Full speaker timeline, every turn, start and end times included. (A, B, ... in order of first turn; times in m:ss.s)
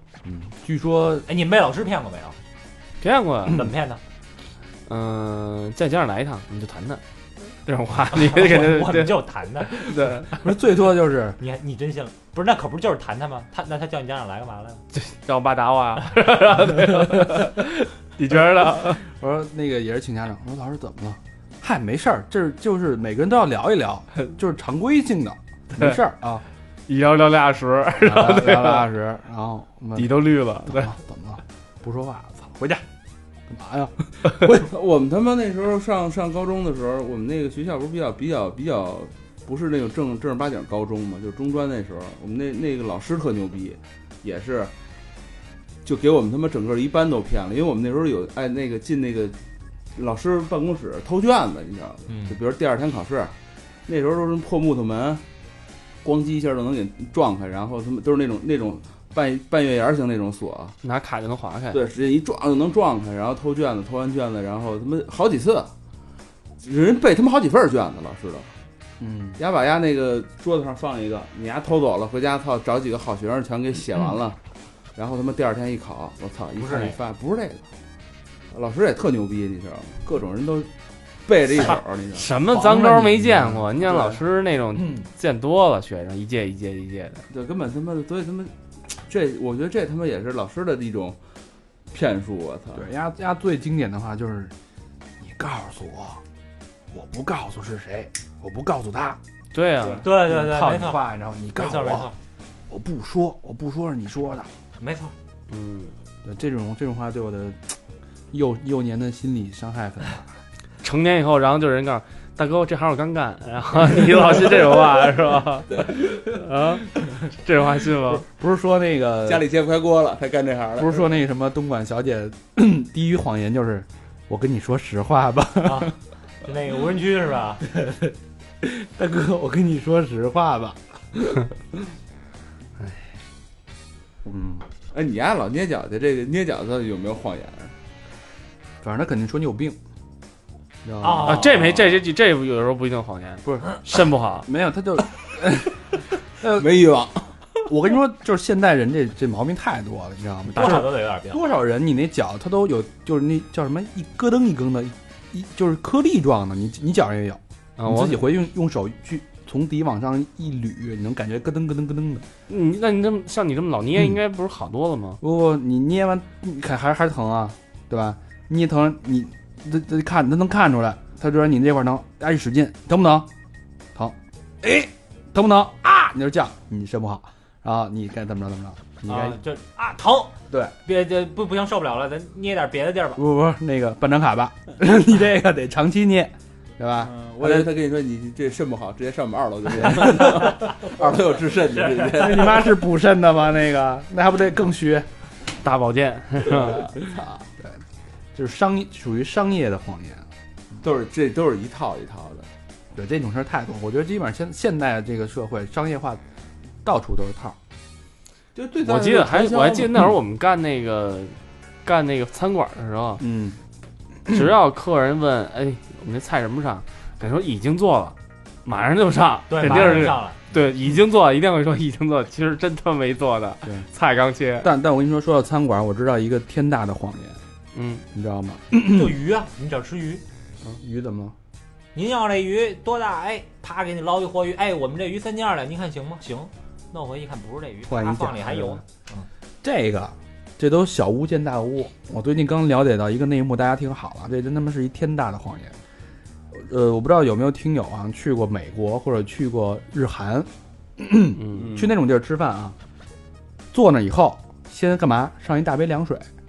0:00.2-0:01.3 A
0:01.3-0:02.4 B
0:03.0-0:03.7 C
0:03.5-0:04.0 B
0:04.9-0:07.0 C
0:07.6-0:10.4 C
0:08.1-0:10.0 B
0:10.3-0:11.4 A
0:11.4-0:14.8 B
0:14.9-0:19.0 C
0:18.7-0:26.4 A
0:25.7-0:26.0 C
0:26.9-0:28.9 C
0:28.0-0:32.8 A
0:30.0-0:31.0 C
0:33.5-0:34.7 A
0:34.6-0:44.7 D
0:45.8-0:49.4 D
0:49.9-0:53.3 D
0:52.1-0:52.4 B
0:53.9-0:55.2 D
0:56.0-1:00.8 D
1:00.8-1:01.8 C
1:01.7-1:05.7 D
1:06.6-1:08.6 D
1:09.0-1:09.4 A
1:09.4-1:14.4 D
1:15.0-1:17.7 D
1:16.6-1:17.0 B
1:18.5-1:20.7 D
1:21.2-1:22.3 D
1:21.6-1:27.2 C
1:22.5-1:23.7 A
1:23.9-1:24.2 D
1:27.3-1:31.2 D
1:31.9-1:32.9 D
1:32.8-1:34.5 A
1:35.2-1:36.2 A
1:36.9-1:39.2 A
1:39.5-1:40.0 C
1:39.8-1:40.1 D
1:40.0-1:42.2 B
1:40.2-1:42.1 A
1:42.7-1:44.5 A
1:44.8-1:45.1 B
1:45.5-1:45.9 C
1:46.2-1:47.8 A
1:48.3-1:50.3 A
1:50.8-1:58.2 C
1:58.1-1:59.4 A
1:59.2-2:01.1 D
2:00.8-2:05.9 A
2:05.6-2:07.6 B
2:07.7-2:11.5 A
2:14.2-2:14.6 A
2:14.9-2:17.7 D
2:18.8-2:19.8 A
2:20.8-2:21.7 A
2:21.0-2:21.7 B
2:21.2-2:24.5 C
2:24.4-2:25.8 A
2:26.4-2:26.7 A
2:26.4-2:27.3 D
2:27.6-2:42.2 A
2:30.5-2:31.4 B
2:30.5-2:30.9 C
2:37.8-2:38.2 C
2:42.5-2:45.2 C
2:45.2-2:53.3 A
2:53.9-2:59.4 A
2:59.0-3:03.2 B
3:03.2-3:07.7 A
3:07.0-3:12.7 D
3:09.8-3:10.5 A
3:11.8-3:12.2 B
3:12.1-3:15.1 A
3:15.5-3:17.0 C
3:16.7-3:17.8 A
3:18.4-3:20.3 A
3:20.8-3:22.5 D
3:22.9-3:26.2 A
3:26.8-3:27.6 A
3:28.5-3:30.1 D
3:28.8-3:33.2 C
3:33.2-3:33.6 A
3:34.3-3:44.7 C
3:39.5-3:40.4 B
3:39.6-3:40.1 A
3:44.6-3:47.4 A
3:47.7-3:48.0 C
3:48.1-3:49.1 A
3:48.8-3:50.2 B
3:50.6-3:51.4 A
3:51.9-3:59.3 B
3:57.9-3:58.8 A
3:59.6-4:05.8 A
4:06.5-4:12.8 A
4:11.4-4:11.7 C
4:11.5-4:11.9 D
4:13.7-4:16.3 A